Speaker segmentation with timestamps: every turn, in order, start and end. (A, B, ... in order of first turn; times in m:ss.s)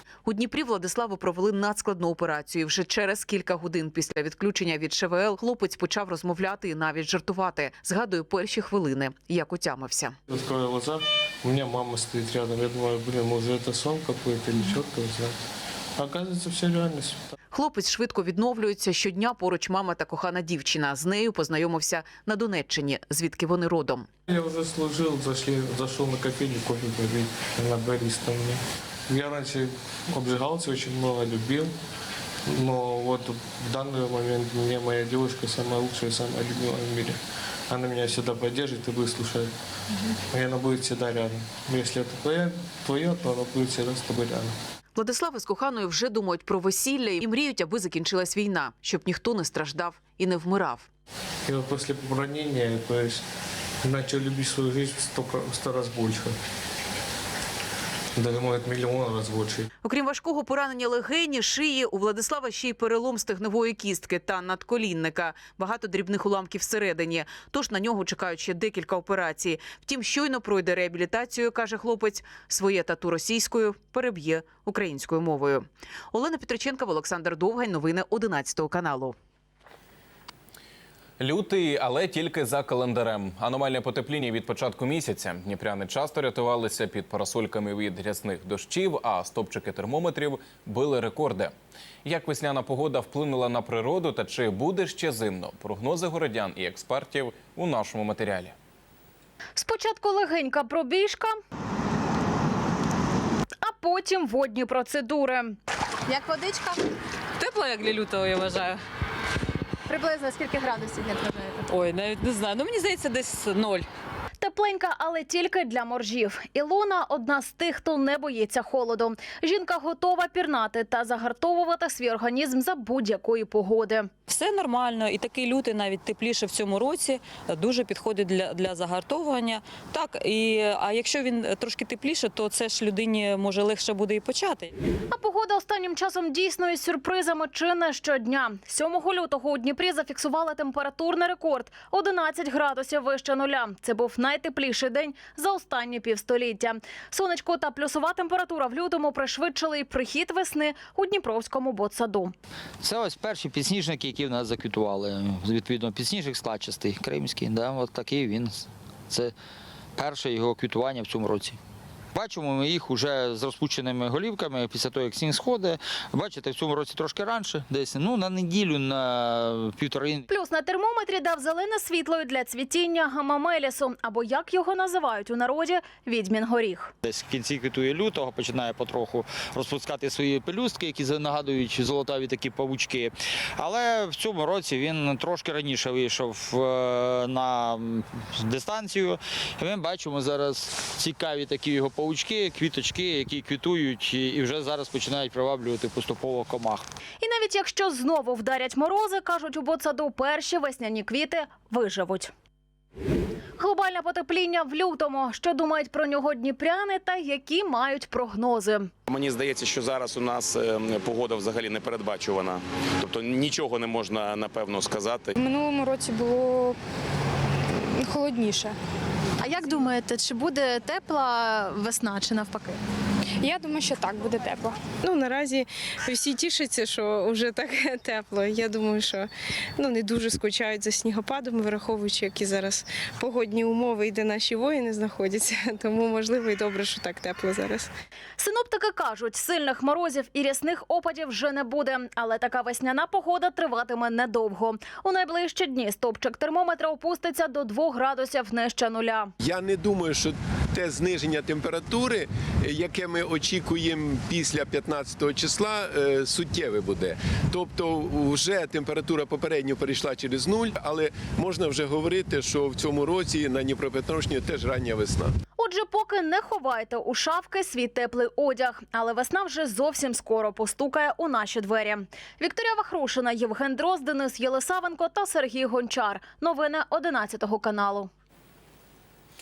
0:00.2-0:10.2 A
0:10.3-0:15.4 B
0:16.0-0:17.3 B
0:17.5-0:24.1 A
0:24.3-0:31.7 B
0:32.5-0:39.5 B
0:40.3-0:44.5 B
0:45.0-0:50.9 A
0:51.4-0:53.2 B
0:53.8-0:56.4 B
0:58.2-0:59.7 B
0:59.8-1:19.1 A
1:21.2-1:31.5 C
1:32.0-1:38.5 C
1:39.6-1:41.3 D
1:43.6-1:45.6 D
1:46.1-1:46.8 E
1:47.4-1:48.8 F
1:49.9-1:51.6 E
1:51.7-1:53.9 F
1:54.4-2:04.1 D
2:04.3-2:14.7 F
2:15.1-2:32.3 D
2:32.8-2:39.3 G
2:40.0-2:41.6 G
2:42.1-2:50.2 G
2:50.3-2:56.9 D
2:57.0-3:16.8 G
3:17.2-3:22.3 D
3:23.6-3:28.9 D
3:29.1-3:35.4 H
3:39.4-3:42.7 I
3:45.0-3:57.9 J
3:58.4-4:09.3 D
4:09.4-4:25.3 K
4:25.6-4:38.1 D